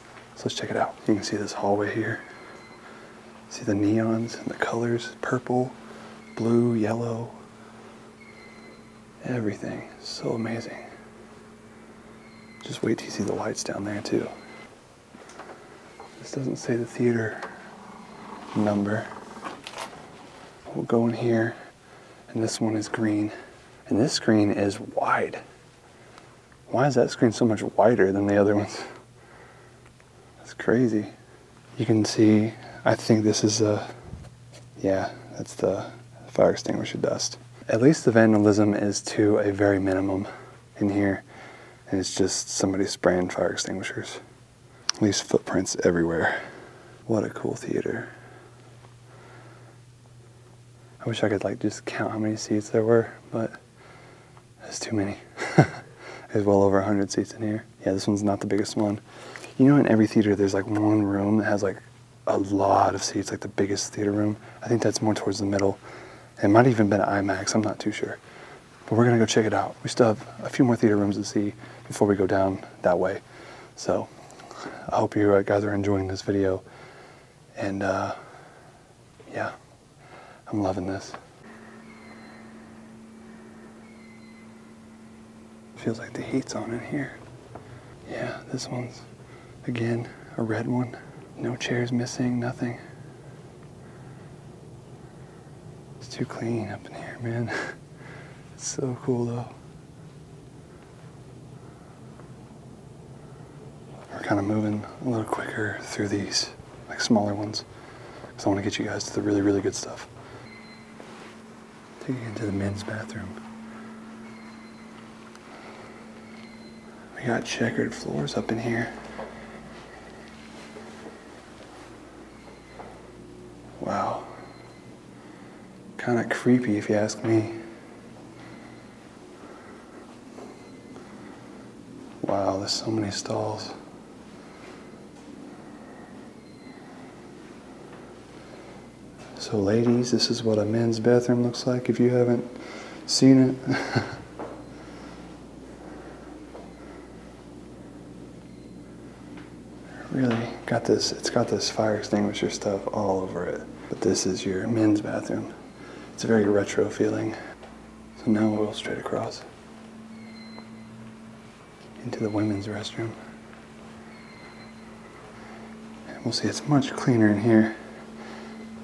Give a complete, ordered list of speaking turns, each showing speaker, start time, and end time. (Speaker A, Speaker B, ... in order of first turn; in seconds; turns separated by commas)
Speaker A: 0.3-2.2, Speaker A: 3.5-5.8, Speaker A: 6.3-7.4, Speaker A: 9.2-10.9, Speaker A: 12.6-14.3, Speaker A: 16.2-17.5, Speaker A: 18.5-19.1, Speaker A: 20.7-21.6, Speaker A: 22.3-23.3, Speaker A: 23.9-25.4, Speaker A: 26.7-28.9, Speaker A: 30.4-31.1, Speaker A: 31.8-33.9, Speaker A: 34.8-41.2, Speaker A: 41.9-44.2, Speaker A: 45.0-46.4, Speaker A: 47.1-48.1, Speaker A: 51.0-53.6, Speaker A: 54.6-59.0, Speaker A: 59.6-65.8, Speaker A: 66.4-68.2, Speaker A: 68.9-73.2, Speaker A: 73.8-76.6, Speaker A: 77.5-78.2, Speaker A: 79.3-79.5, Speaker A: 80.5-81.2, Speaker A: 85.8-87.2, Speaker A: 88.0-89.1, Speaker A: 89.6-92.8, Speaker A: 96.0-97.8, Speaker A: 98.5-99.5, Speaker A: 104.1-107.7, Speaker A: 108.3-110.1, Speaker A: 112.0-113.3, Speaker A: 117.1-118.9, Speaker A: 123.8-124.3, Speaker A: 126.0-127.6, Speaker A: 132.2-133.8, Speaker A: 139.3-144.2, Speaker A: 150.1-155.5, Speaker A: 156.2-157.3, Speaker A: 158.2-159.4, Speaker A: 162.0-163.2, Speaker A: 166.1-167.8